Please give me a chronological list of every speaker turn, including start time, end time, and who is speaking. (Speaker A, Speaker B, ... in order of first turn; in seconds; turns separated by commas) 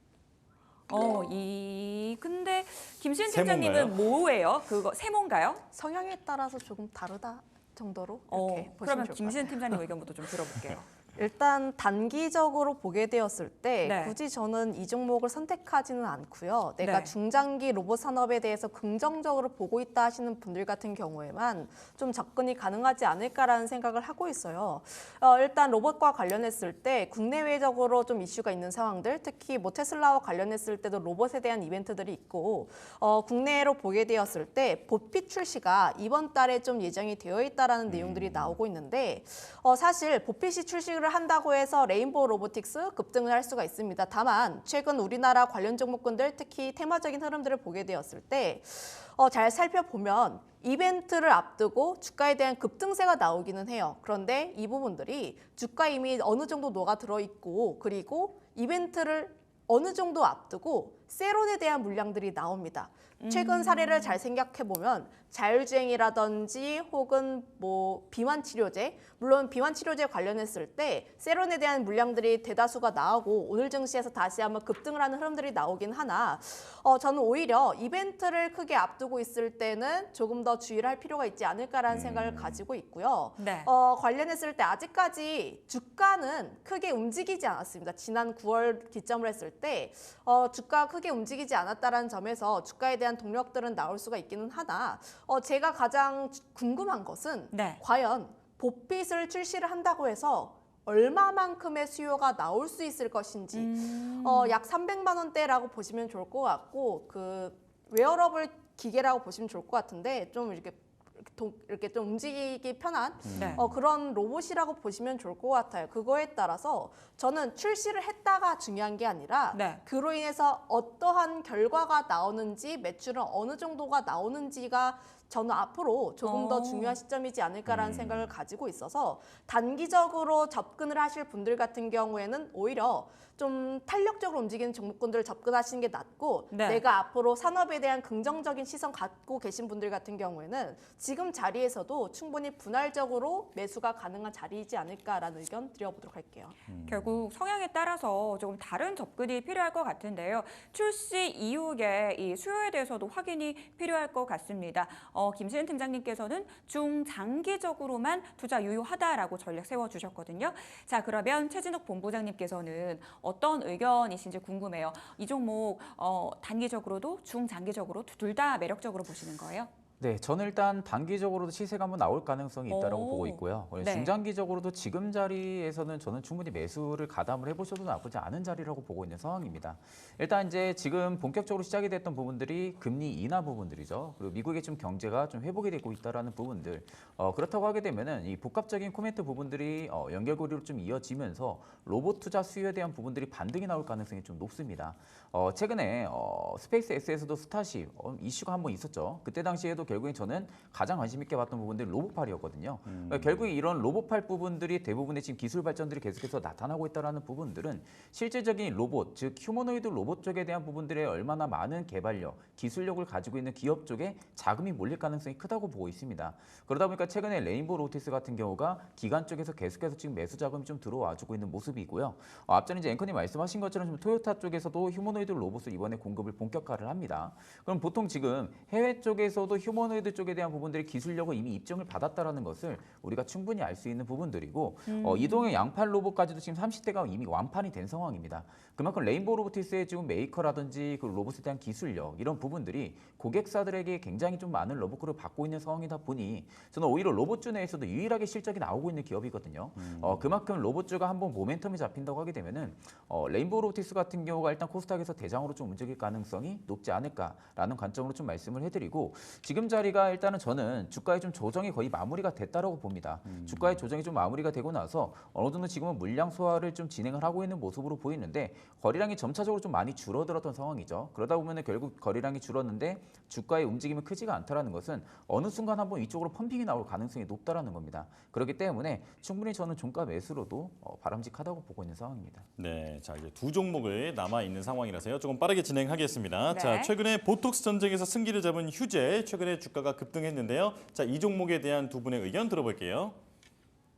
Speaker A: 0.9-5.6, Speaker B: 3.3-4.0, Speaker C: 5.7-9.8, Speaker A: 8.3-10.9, Speaker C: 11.2-146.5, Speaker A: 13.8-14.2, Speaker A: 16.8-17.1, Speaker B: 37.9-38.5, Speaker A: 63.2-64.2, Speaker B: 81.9-82.6, Speaker A: 83.4-83.7, Speaker A: 97.5-97.8, Speaker A: 103.5-104.6, Speaker B: 113.2-113.8, Speaker A: 113.3-113.6, Speaker A: 119.5-119.8, Speaker A: 126.2-127.0, Speaker B: 127.7-128.3, Speaker A: 136.5-136.8, Speaker B: 146.7-147.2, Speaker A: 146.9-169.7, Speaker D: 170.0-282.5, Speaker A: 172.7-174.1, Speaker B: 202.9-203.5, Speaker A: 234.9-235.5, Speaker B: 249.8-250.3, Speaker B: 263.2-263.8, Speaker B: 282.6-293.2, Speaker A: 286.5-286.9